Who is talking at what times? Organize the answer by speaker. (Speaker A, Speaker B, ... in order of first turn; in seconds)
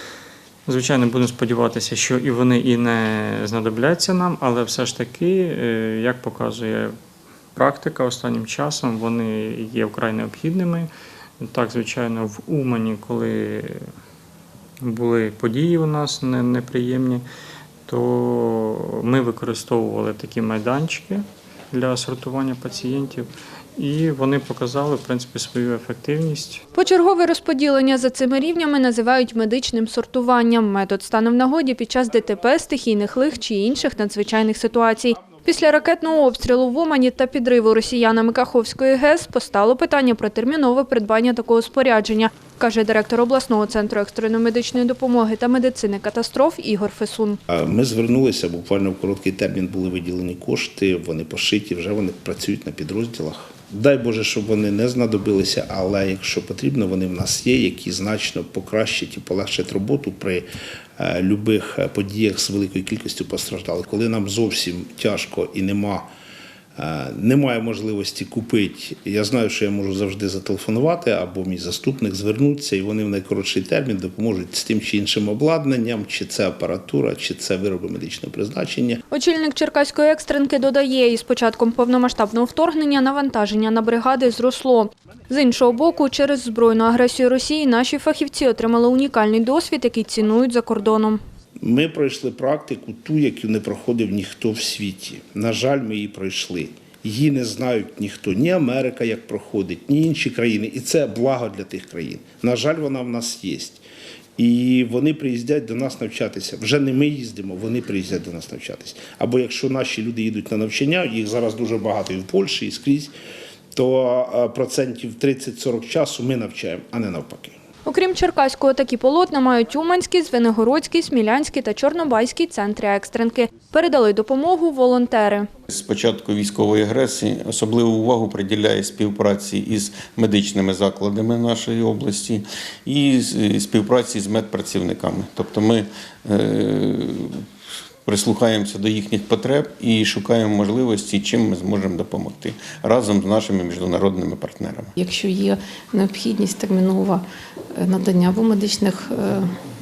Speaker A: 0.7-6.9, 7.6-10.9, 11.4-13.8, 14.8-17.2, 17.9-26.6
Speaker B: 26.7-47.4, 79.1-91.2, 117.8-125.5
Speaker C: 47.5-66.1, 66.8-79.0, 91.6-103.8, 104.4-113.1, 113.8-117.6
Speaker D: 125.7-137.4, 138.1-144.9
Speaker E: 145.0-149.5